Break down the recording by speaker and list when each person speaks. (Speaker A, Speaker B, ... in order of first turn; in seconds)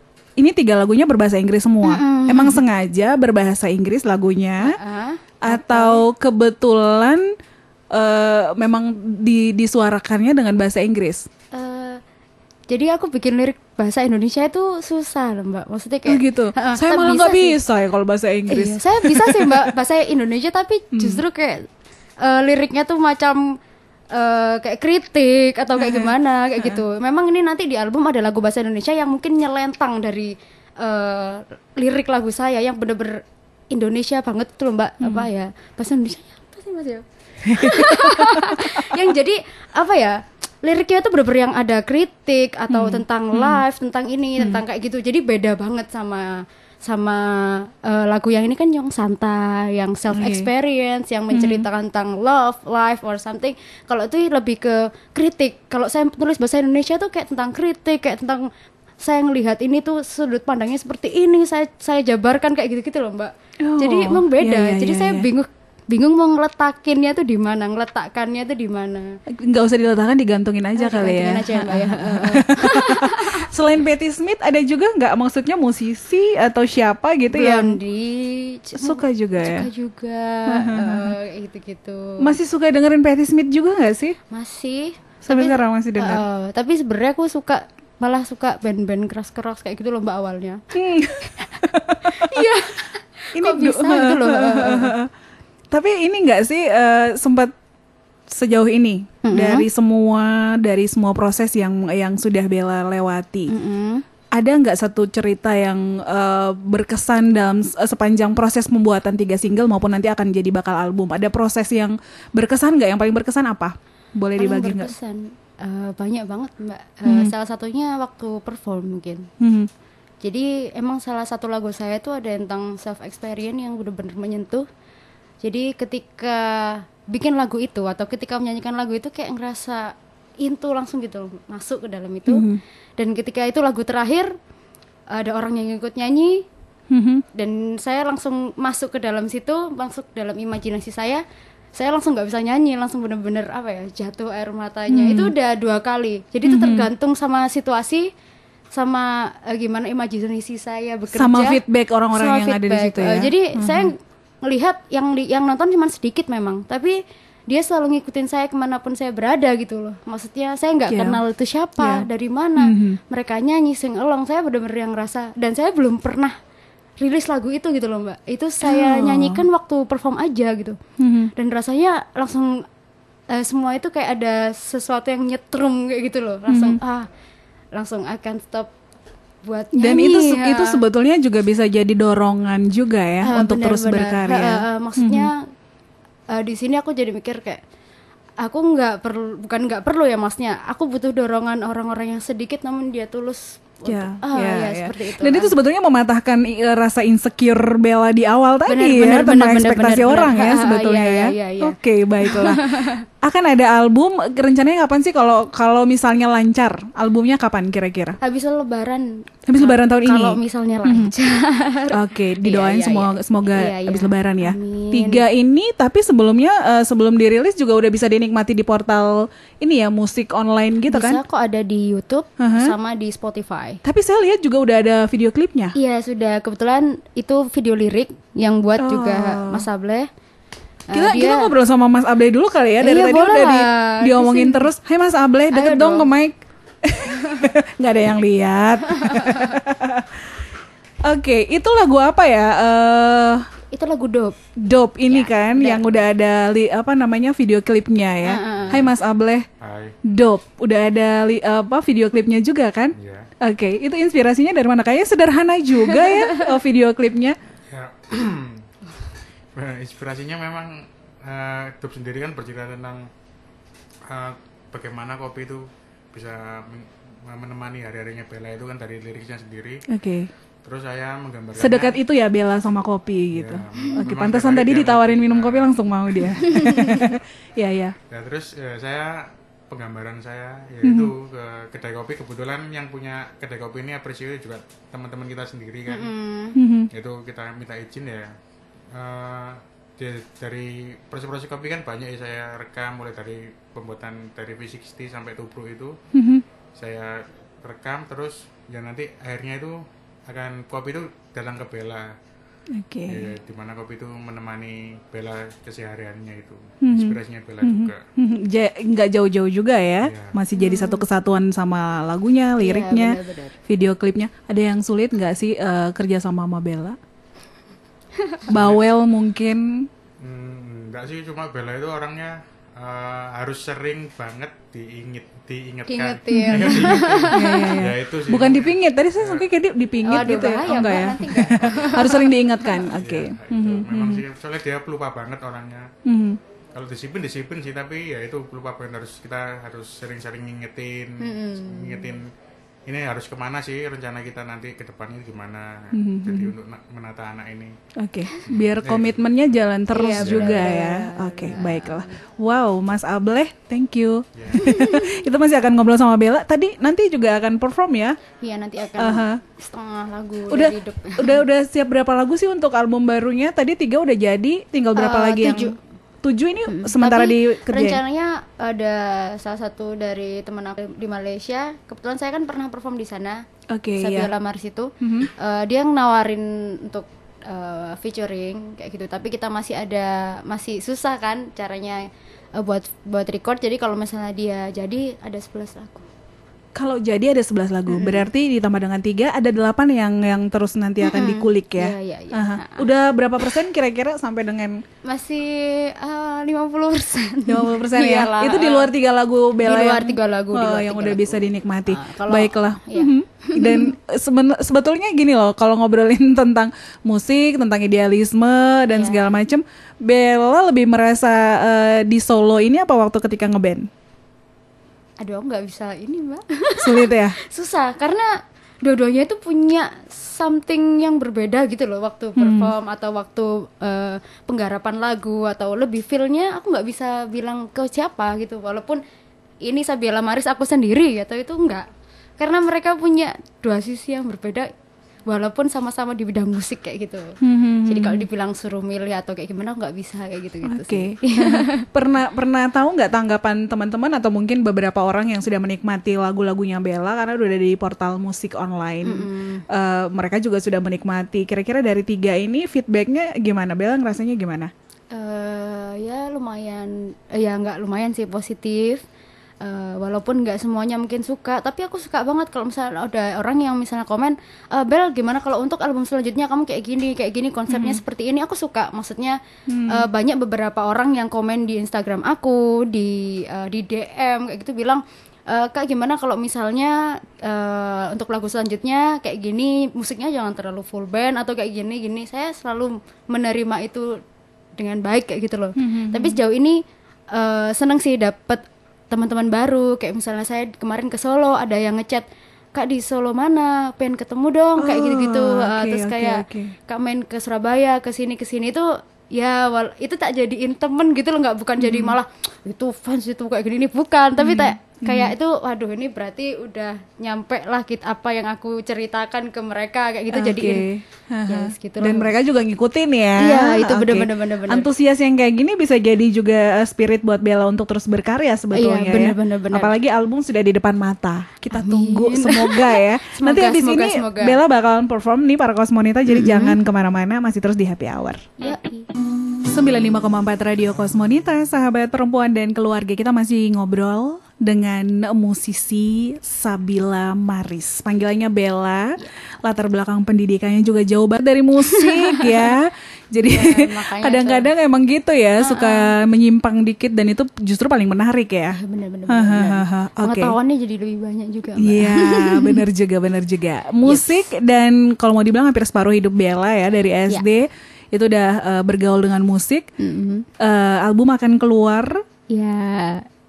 Speaker A: 0.4-4.8, 5.4-7.2, 7.9-11.3, 16.1-19.7, 20.9-21.2, 25.8-26.8, 35.0-35.3, 37.5-39.0, 42.7-43.6, 50.1-50.5, 51.3-51.7, 63.6-65.3, 69.3-77.8, 78.8-79.7, 80.5-81.1, 82.2-84.2, 85.3-86.2, 90.7-92.5, 93.4-95.1, 95.7-97.5, 98.3-103.5, 104.3-114.9, 117.1-117.3, 119.4-119.7, 132.3-132.6, 136.9-137.2, 144.9-145.3, 146.4-146.9, 151.1-153.9, 160.9-161.2, 161.8-163.0, 168.6-169.4, 171.0-171.3, 176.5-176.8, 179.7-185.3, 193.9-208.2, 209.5-211.1, 211.9-221.2, 222.4-222.7, 223.8-225.8, 228.8-229.7, 230.9-240.4, 241.0-243.5, 244.6-249.5, 250.0-257.4, 269.9-270.3, 271.6-278.0, 280.8-281.1, 286.6-286.9, 296.1-296.4, 302.7-303.3, 306.8-317.0, 318.5-319.9, 326.3-334.2, 336.1-336.4, 345.9-346.5, 348.0-358.2, 359.0-359.4, 360.5-368.0, 373.7-374.3, 375.0-375.3, 386.8-394.8, 397.5-413.9, 416.8-417.4, 422.4-422.7, 437.4-438.3, 440.6-454.7, 467.7-468.0, 469.7-470.1, 485.8-486.4, 494.8-496.7, 501.8-502.2, 504.4-505.3, 510.3-528.5, 529.6-548.8, 549.3-550.5, 551.8-559.9, 560.6-562.2
Speaker B: 1.8-2.6, 4.6-6.0, 11.5-12.0, 12.7-17.6, 18.5-21.7, 22.2-23.5, 24.1-58.5, 59.0-69.2, 70.8-73.5, 77.3-82.3, 84.3-90.6, 91.2-94.9, 99.2-99.7, 103.5-104.0, 114.4-119.3, 120.2-124.7, 125.4-132.5, 133.0-134.3, 135.1-136.4, 137.3-141.2, 141.8-148.1, 148.7-151.6, 152.1-166.3, 167.0-170.8, 171.4-172.7, 173.3-177.1, 177.7-178.7, 179.4-180.8, 183.2-185.5, 186.3-187.6, 188.4-195.5, 198.7-203.0, 208.2-215.2, 220.9-223.8, 225.8-230.1, 230.9-231.5, 232.8-234.7, 235.5-236.1, 238.9-239.5, 243.7-244.4, 245.1-245.9, 248.2-248.9, 276.5-277.1, 285.9-286.6, 310.6-311.0, 312.6-313.6, 325.9-327.8, 330.1-332.3, 341.2-342.2, 349.9-352.2, 354.6-355.2, 358.4-361.4, 365.0-365.8, 366.7-373.4, 374.0-386.1, 387.9-388.2, 391.0-392.9, 395.1-398.9, 399.6-403.9, 408.9-409.3, 415.2-418.3, 418.8-429.0, 429.6-431.9, 432.4-434.7, 435.3-441.8, 449.0-449.6, 455.1-459.0, 459.6-484.2, 484.8-486.8, 487.3-510.9, 511.5-512.3, 513.4-514.9, 518.7-520.0, 521.7-524.6, 526.3-526.8, 528.6-529.1, 541.9-542.7, 543.4-544.7, 545.6-546.1, 548.7-552.9, 554.0-554.5, 560.0-560.5, 562.5-563.3
Speaker C: 249.6-250.0, 253.0-253.3, 257.7-258.7, 259.6-263.1, 264.1-269.8, 270.6-272.0, 273.3-276.5, 278.1-286.1, 286.9-288.3, 288.9-296.0, 296.8-302.1, 303.1-308.0, 310.0-310.4, 318.5-318.9, 320.2-329.5, 330.6-332.3, 332.9-335.9, 336.7-342.3, 342.9-347.8, 348.5-349.2, 350.2-350.6, 354.4-354.7